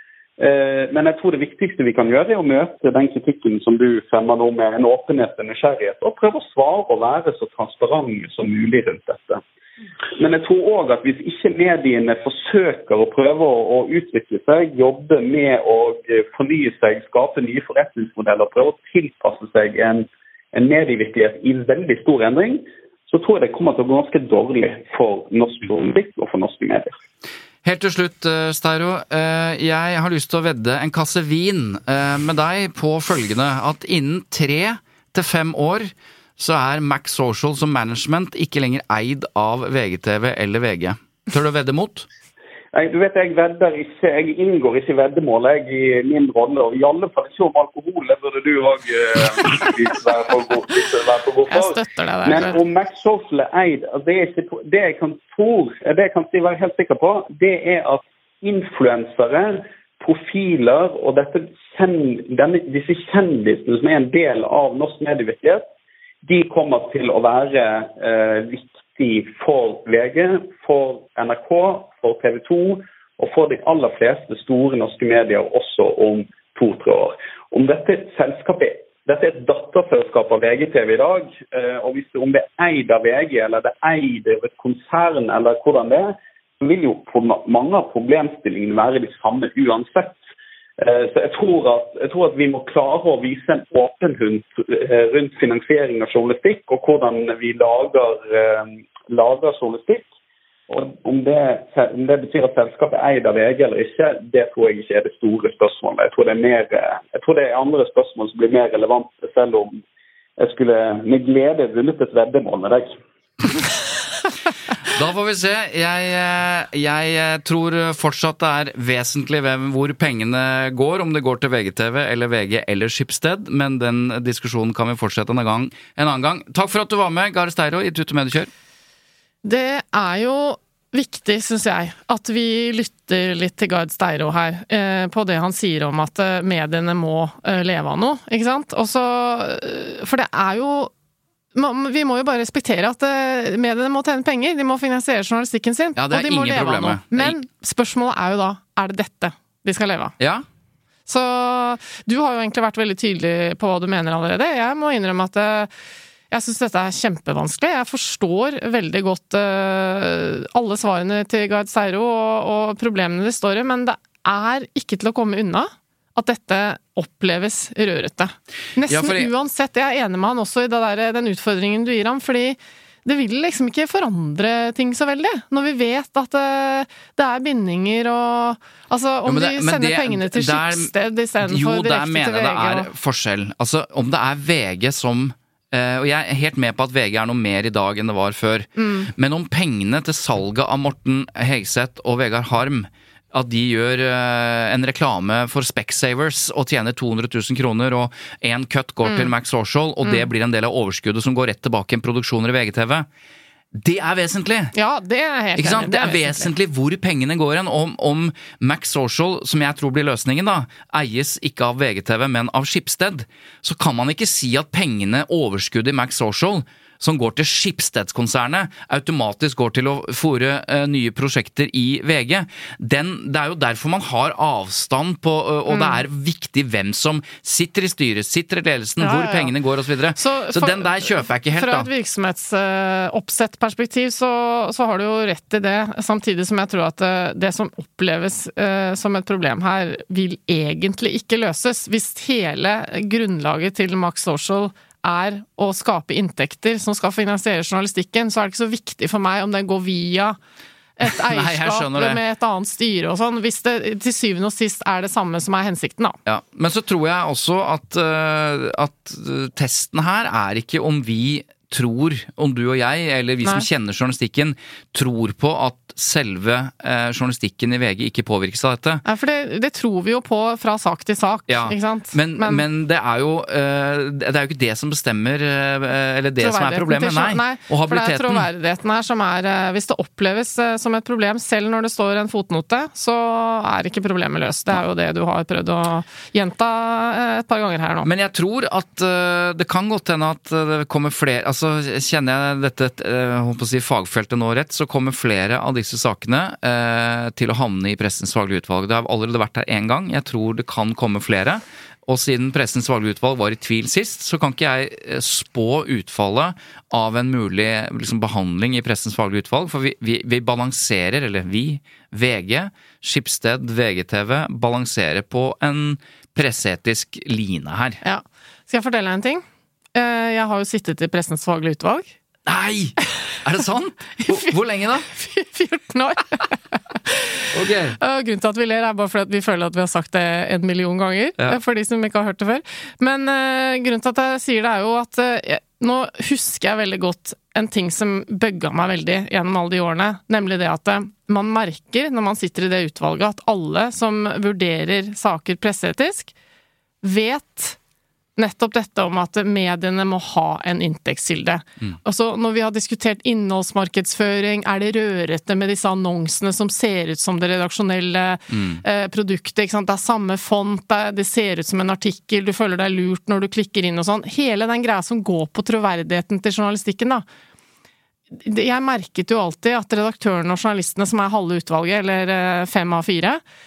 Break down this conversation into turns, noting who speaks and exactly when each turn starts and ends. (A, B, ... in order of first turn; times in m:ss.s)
0:00.4-0:09.4 A
0:10.2-0:27.0 A
0:27.6-0:42.1 B
0:42.7-1:05.6 A
0:51.5-0:52.6 C
1:06.2-1:30.2 A
1:30.8-1:40.1 A
1:40.7-1:49.8 A
1:50.4-1:52.9 A
1:54.9-2:08.5 B
2:09.4-2:20.9 C
2:21.5-2:30.1 C
2:26.0-2:27.4 B
2:30.2-2:30.4 B
2:31.1-2:35.7 C
2:36.3-3:02.9 C
2:48.8-2:49.3 B
2:59.2-3:23.1 B
3:08.8-3:09.1 C
3:19.0-3:19.3 C
3:23.7-3:24.7 B
3:24.7-3:26.5 C
3:25.6-3:51.9 B
3:45.7-3:46.0 C
3:49.0-3:49.5 C
3:50.2-4:10.4 C
4:11.0-4:16.2 C
4:11.2-4:12.2 B
4:16.2-4:29.0 B
4:29.0-4:32.6 C
4:31.5-4:38.5 B
4:36.4-4:48.1 C
4:48.0-5:18.0 B
5:18.0-5:19.4 C
5:19.9-5:22.1 C
5:22.4-5:25.1 B
5:24.2-5:24.5 C
5:25.1-5:27.4 C
5:27.5-5:28.0 B
5:28.0-5:46.3 C
5:47.0-5:47.8 C
5:48.4-6:07.2 C
5:58.5-5:58.8 B
6:08.3-6:13.4 C